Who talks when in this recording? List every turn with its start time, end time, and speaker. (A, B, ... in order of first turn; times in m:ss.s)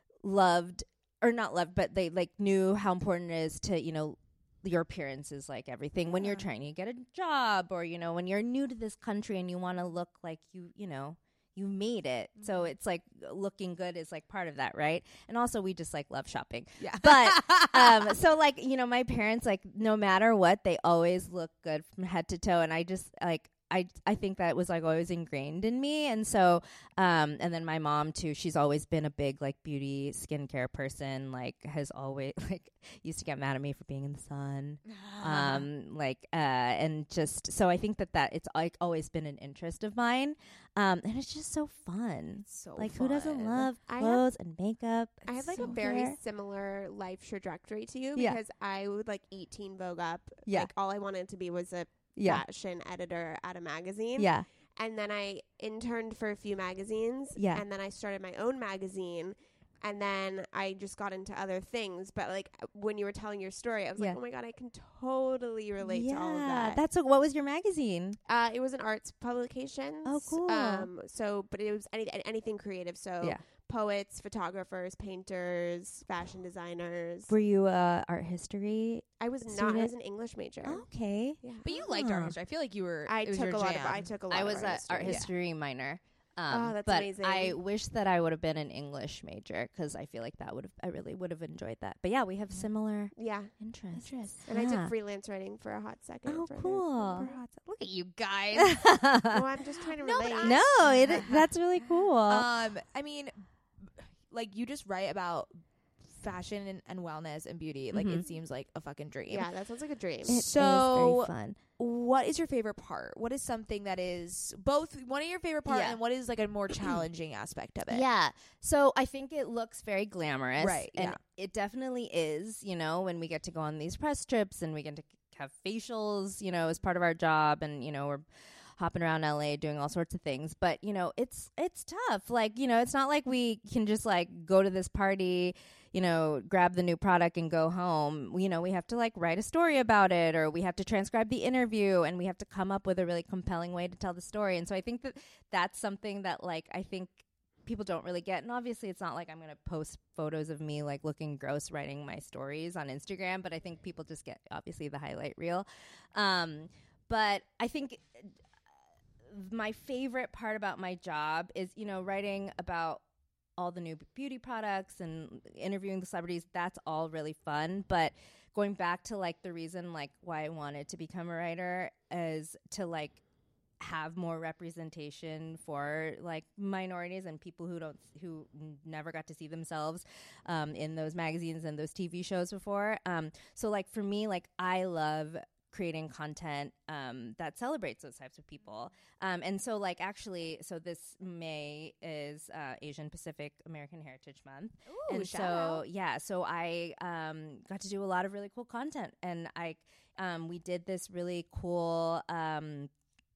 0:00.2-0:46.2 A
0:06.1-0:06.4 B
0:16.8-0:18.2 B
0:34.9-0:35.7 B
0:42.5-0:43.7 B
0:43.9-0:44.3 C
0:45.3-1:06.8 C
0:45.6-0:45.8 B
0:52.2-0:52.4 A
0:54.2-0:54.5 A
0:57.4-0:57.6 A
1:05.8-1:08.2 A
1:08.3-1:17.3 C
1:10.1-1:10.9 A
1:17.3-1:19.9 A
1:19.2-1:20.8 C
1:20.6-1:22.4 A
1:21.4-1:21.7 C
1:21.6-1:24.1 B
1:23.1-1:25.3 C
1:24.3-1:34.9 A
1:26.5-1:27.6 C
1:33.2-1:33.5 C
1:34.0-1:34.5 B
1:34.5-1:37.4 C
1:36.3-1:37.3 A
1:37.1-1:38.8 B
1:38.6-1:39.5 A
1:39.3-1:40.6 C
1:40.0-1:41.5 B
1:40.4-1:42.5 A
1:42.3-1:49.5 B
1:47.9-1:48.2 A
1:49.3-1:50.4 C
1:50.3-1:58.0 B
1:50.3-1:51.6 A
1:55.7-1:56.0 A
1:57.9-2:08.2 A
2:00.6-2:01.2 B
2:08.8-2:38.3 A
2:39.3-2:43.0 A
2:43.6-2:53.2 A
2:53.8-3:22.9 A
3:14.9-3:15.8 B